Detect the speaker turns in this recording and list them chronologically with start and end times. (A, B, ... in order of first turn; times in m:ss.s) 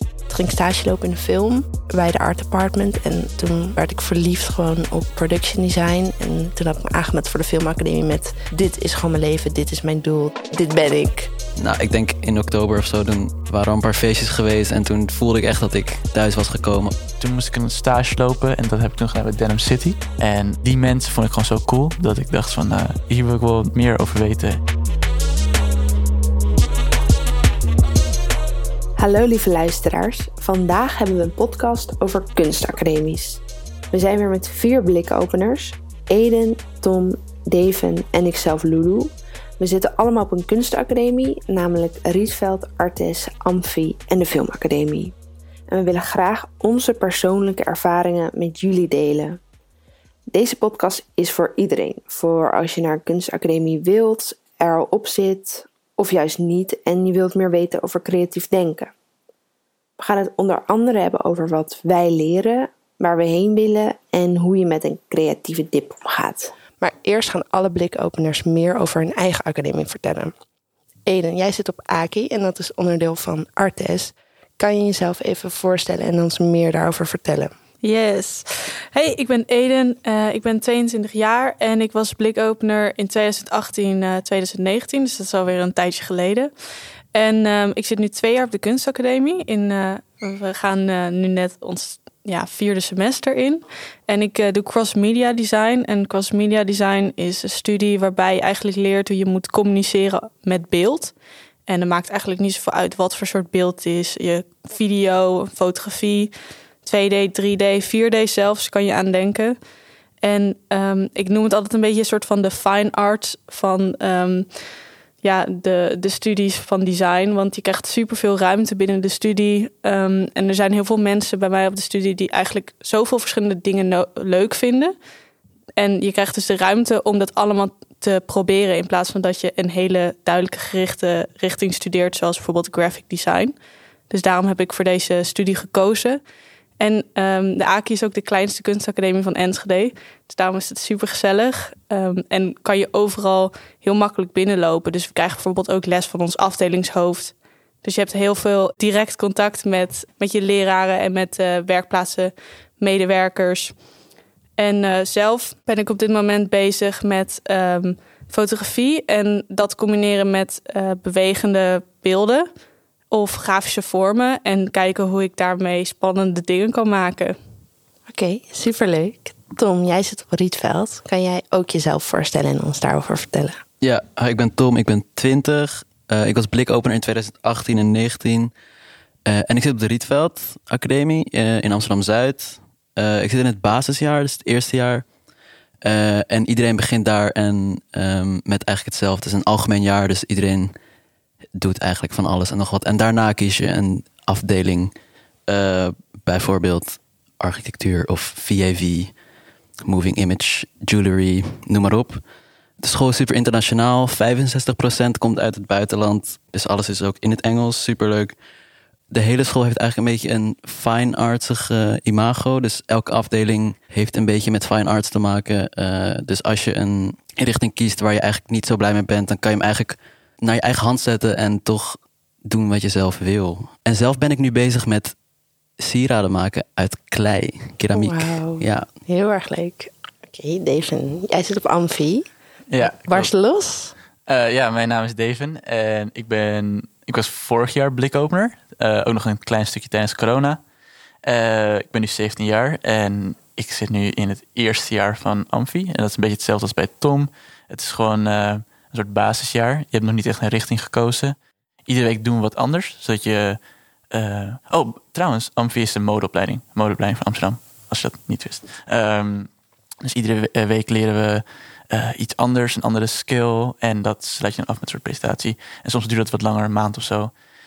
0:00.3-0:11.3 A
0:11.6-0:16.9 B
0:17.2-0:24.6 C
0:29.0-0:45.1 A
0:45.7-0:49.4 A
0:50.3-0:58.9 A
1:00.0-1:10.3 A
1:11.0-1:17.5 A
1:17.8-1:26.5 D
1:27.1-1:41.1 D
1:41.7-1:49.6 D
1:50.2-1:54.5 D
1:55.2-2:04.9 D
2:05.8-2:13.5 D
2:14.1-2:16.2 D
2:16.8-2:33.7 D
2:34.6-2:42.5 D
2:43.1-2:47.4 D
2:48.1-2:53.6 A
2:53.8-2:58.5 B
2:59.2-3:05.1 B
3:05.8-3:10.7 B
3:11.6-3:14.9 B
3:15.5-3:19.1 B
3:19.8-3:22.2 B
3:22.8-3:28.4 B
3:29.1-3:45.1 B
3:45.8-3:48.9 B
3:47.9-3:52.3 A
3:52.7-3:53.3 C
3:52.8-3:53.9 A
3:54.2-4:00.6 C
4:01.2-4:13.6 C
4:14.1-4:19.5 C
4:20.0-4:27.3 C